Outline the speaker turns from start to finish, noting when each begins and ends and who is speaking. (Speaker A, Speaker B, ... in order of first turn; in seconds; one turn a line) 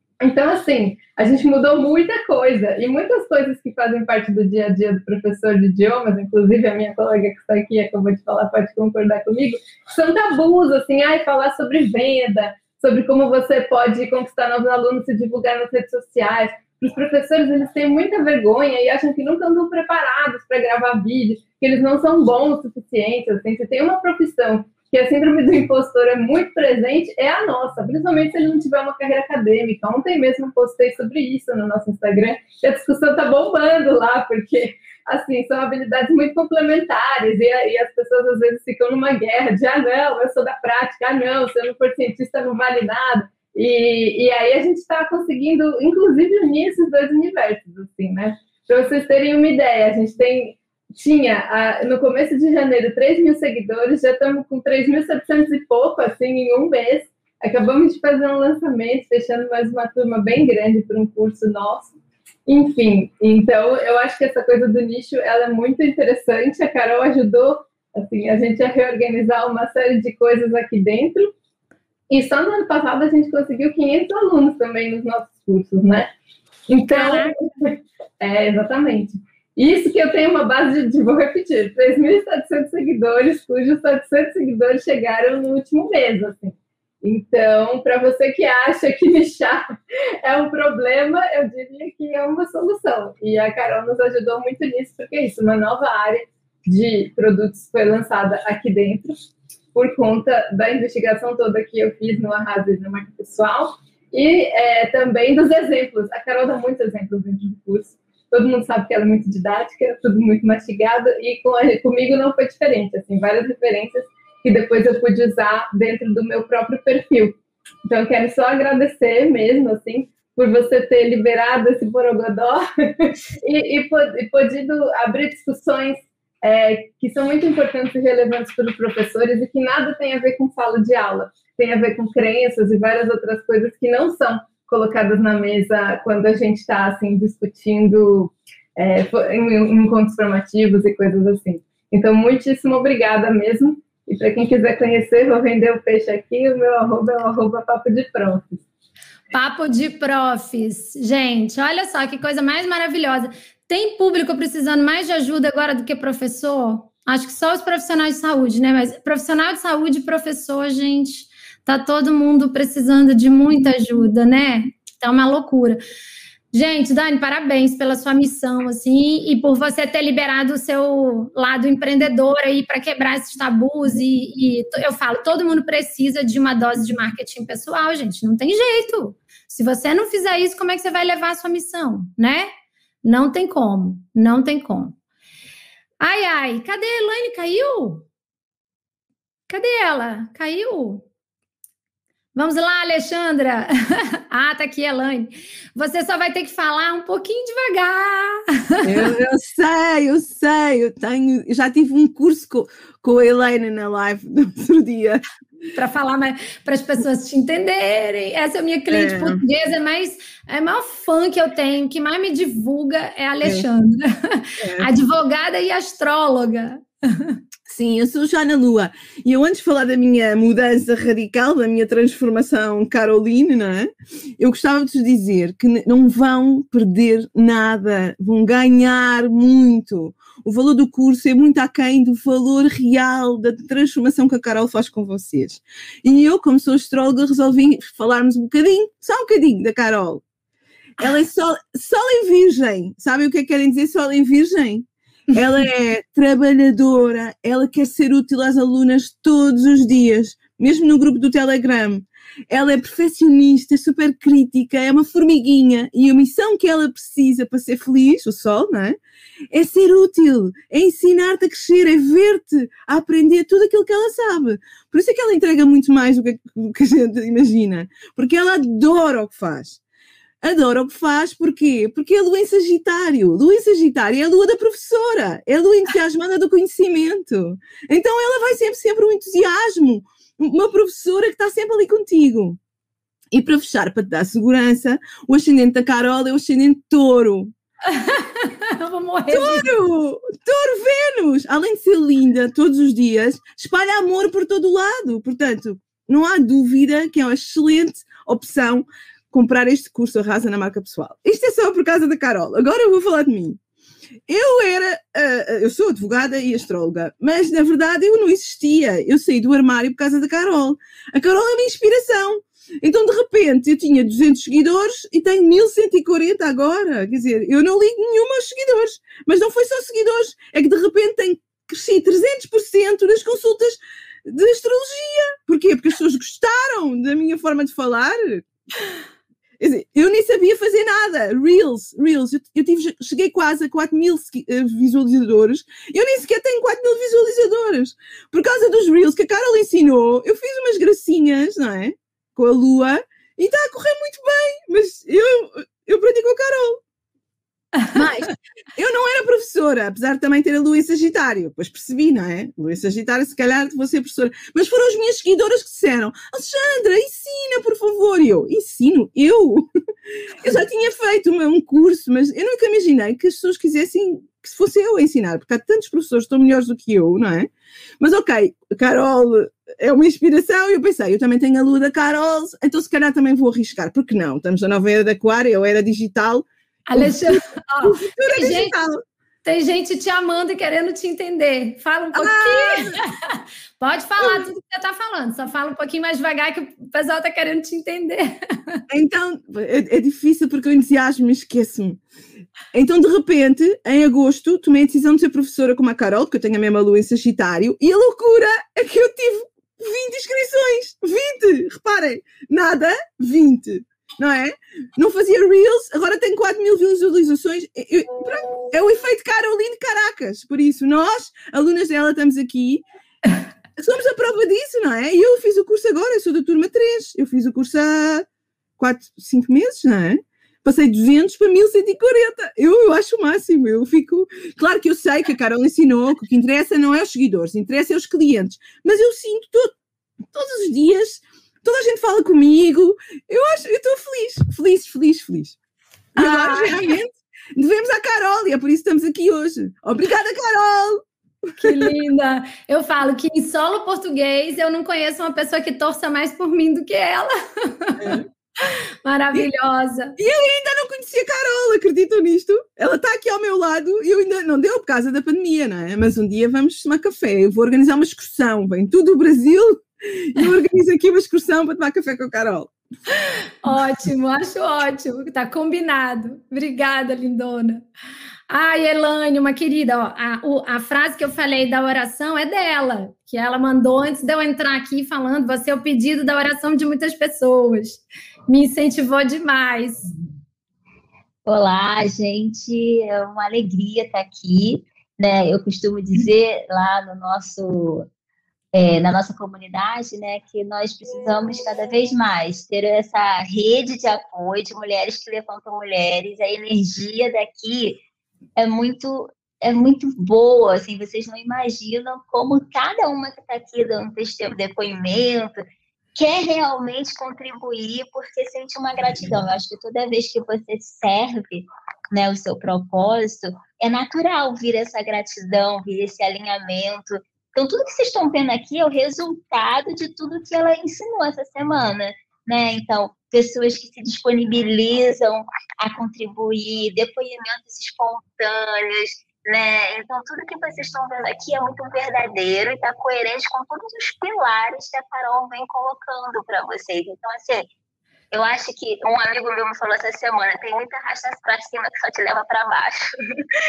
Speaker A: 0.2-61.9
Speaker A: 62.5-71.3
Speaker A: 72.1-76.1
Speaker A: 76.7-89.6
Speaker B: 76.9-77.3
Speaker A: 90.2-99.1
Speaker A: 99.7-148.6
Speaker B: 149.3-165.8
Speaker B: 166.5-182.5
Speaker B: 183.0-184.9
Speaker B: 186.0-188.0
Speaker B: 189.5-191.0
Speaker B: 192.3-199.0
Speaker C: 198.8-205.2
Speaker B: 205.7-217.4
Speaker C: 208.9-209.4
Speaker C: 217.7-240.2
Speaker C: 241.0-259.0
Speaker C: 259.5-269.8
Speaker C: 270.4-282.6
Speaker C: 283.3-287.5
Speaker B: 287.9-289.7
Speaker C: 289.3-303.6
Speaker C: 304.3-328.5
Speaker C: 329.6-346.8
Speaker B: 347.8-348.3
Speaker C: 348.8-359.7
Speaker C: 360.4-377.3
Speaker B: 376.9-378.7
Speaker C: 377.8-379.0
Speaker B: 379.4-388.8
Speaker C: 382.1-382.9
Speaker C: 384.2-384.4
Speaker C: 388.9-392.0
Speaker C: 392.7-412.8
Speaker C: 413.8-418.2
Speaker C: 418.8-429.7
Speaker C: 430.3-435.6
Speaker C: 436.1-441.0
Speaker B: 436.2-436.8
Speaker B: 441.6-448.2
Speaker C: 441.6-441.9
Speaker B: 449.0-450.1
Speaker C: 450.2-462.7
Speaker B: 463.6-467.8
Speaker B: 468.5-480.1
Speaker D: 481.4-488.1
Speaker D: 488.7-498.0
Speaker D: 498.6-505.6
Speaker D: 506.1-537.7
Speaker D: 538.3-543.1